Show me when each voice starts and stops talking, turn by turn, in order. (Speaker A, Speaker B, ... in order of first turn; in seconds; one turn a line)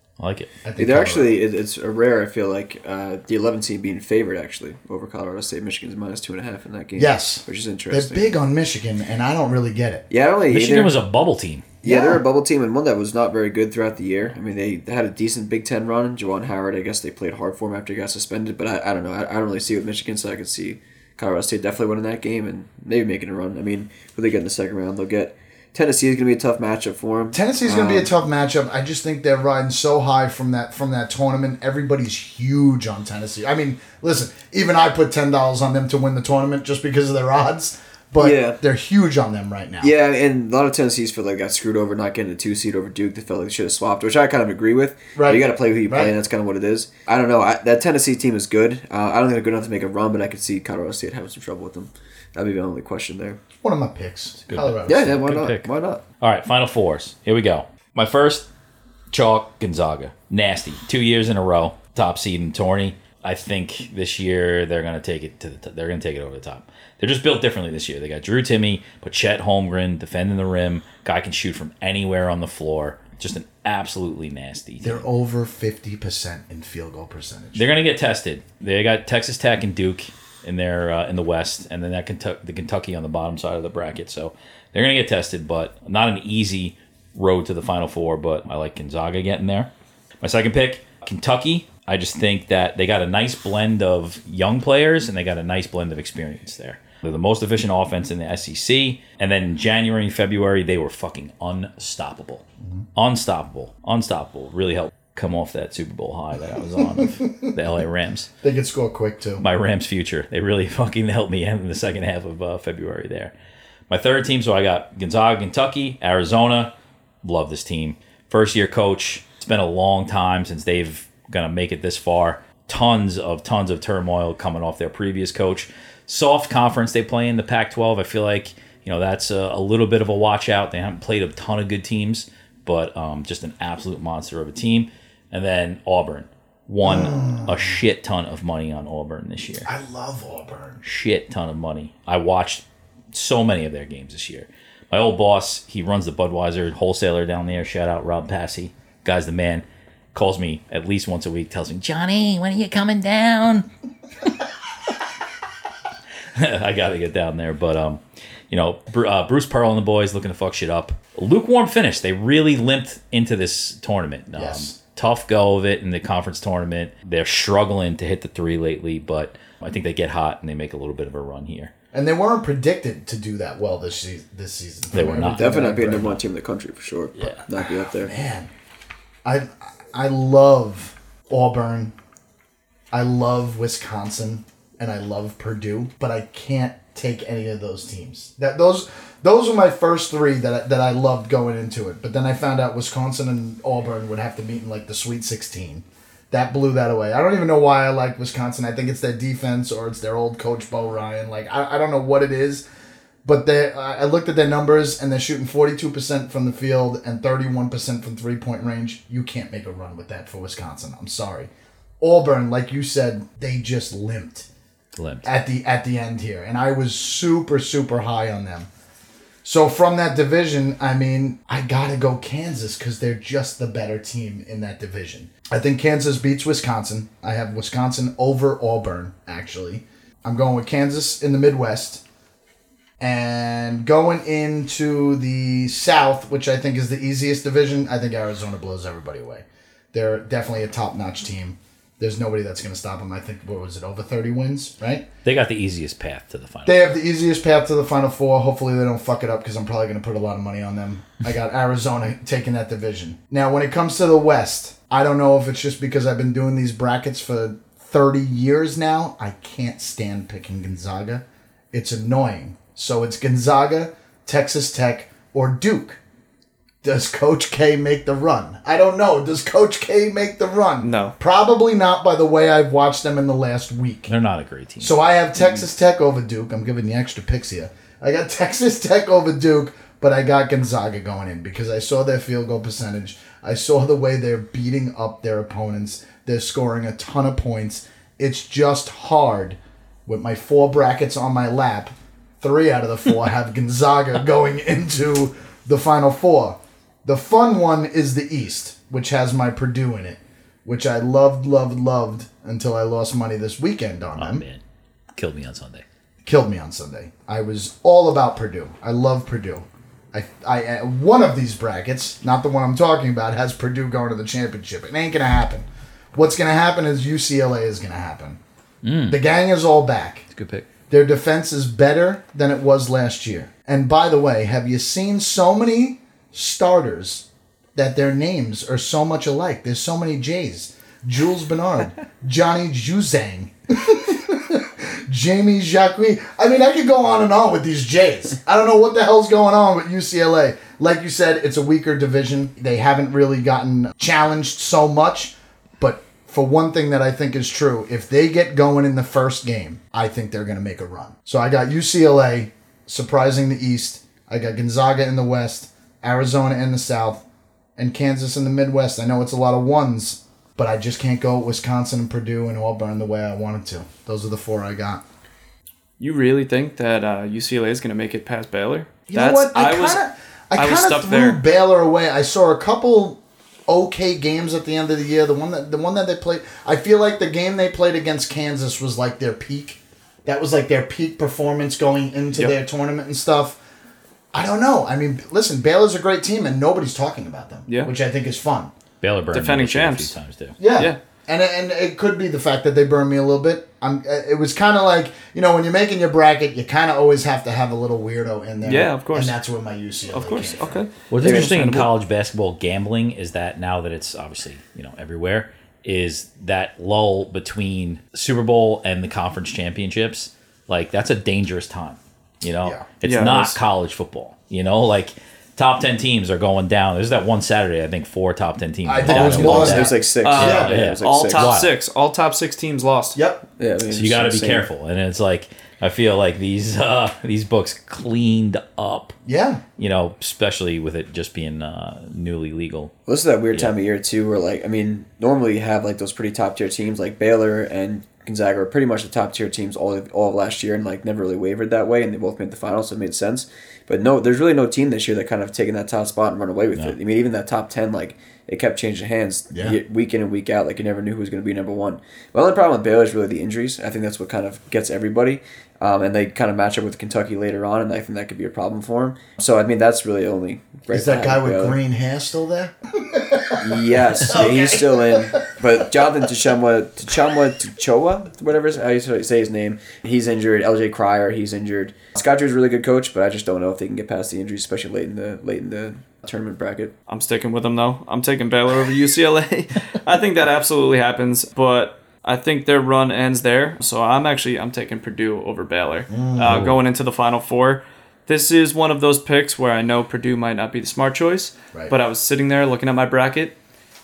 Speaker A: 0.2-0.5
Speaker B: 0.6-1.3
Speaker C: 0.8-8.3
Speaker B: 7.0-10.0
Speaker C: 10.1-10.9
Speaker A: 10.5-11.7
Speaker C: 11.8-28.1
Speaker B: 11.8-12.2
Speaker B: 27.3-39.9
Speaker C: 38.2-38.6
Speaker C: 39.8-53.4
Speaker B: 45.1-46.1
Speaker B: 53.6-55.1
Speaker A: 54.5-55.7
Speaker C: 54.9-56.0
Speaker A: 56.2-58.5
Speaker A: 59.1-75.0
Speaker B: 74.8-77.6
Speaker A: 77.5-89.7
Speaker A: 90.2-102.4
Speaker A: 103.0-108.3
Speaker B: 107.0-107.5
Speaker B: 108.4-109.4
Speaker A: 109.4-113.3
Speaker A: 113.9-139.7
Speaker B: 136.8-137.7
Speaker B: 139.6-140.8
Speaker A: 140.8-153.7
Speaker A: 156.3-171.7
Speaker B: 164.3-164.7
Speaker B: 171.9-176.2
Speaker A: 174.9-175.6
Speaker C: 175.3-178.1
Speaker B: 177.9-178.5
Speaker B: 179.2-181.9
Speaker B: 182.9-202.6
Speaker B: 203.2-214.5
Speaker A: 214.9-215.3
Speaker B: 215.2-218.7
Speaker B: 219.4-232.0
Speaker B: 233.0-245.1
Speaker A: 245.2-246.9
Speaker B: 246.7-266.0
Speaker B: 266.8-274.1
Speaker D: 270.8-271.1
Speaker A: 274.1-274.9
Speaker B: 274.8-304.4
Speaker A: 304.1-304.6
Speaker A: 305.1-305.8
Speaker B: 306.2-318.4
Speaker A: 318.8-319.2
Speaker B: 319.1-320.2
Speaker A: 320.3-320.7
Speaker B: 320.9-357.2
Speaker B: 357.8-365.0
Speaker D: 366.0-370.0
Speaker B: 369.1-383.6
Speaker D: 370.6-371.4
Speaker B: 384.3-388.7
Speaker A: 389.0-390.6
Speaker D: 389.3-390.1
Speaker B: 390.6-400.8
Speaker D: 390.7-391.0
Speaker D: 398.6-399.4
Speaker D: 400.1-401.9
Speaker A: 401.1-421.7
Speaker C: 401.2-401.5
Speaker D: 413.0-413.6
Speaker B: 418.8-420.7
Speaker C: 419.1-421.6
Speaker D: 419.1-423.2
Speaker B: 423.1-423.4
Speaker C: 423.6-424.7
Speaker A: 423.9-429.1
Speaker B: 429.2-429.6
Speaker A: 429.8-432.9
Speaker C: 433.1-461.8
Speaker B: 449.5-449.8
Speaker B: 460.9-465.5
Speaker C: 463.6-476.9
Speaker D: 477.1-493.5
Speaker B: 486.1-486.7
Speaker A: 486.4-486.8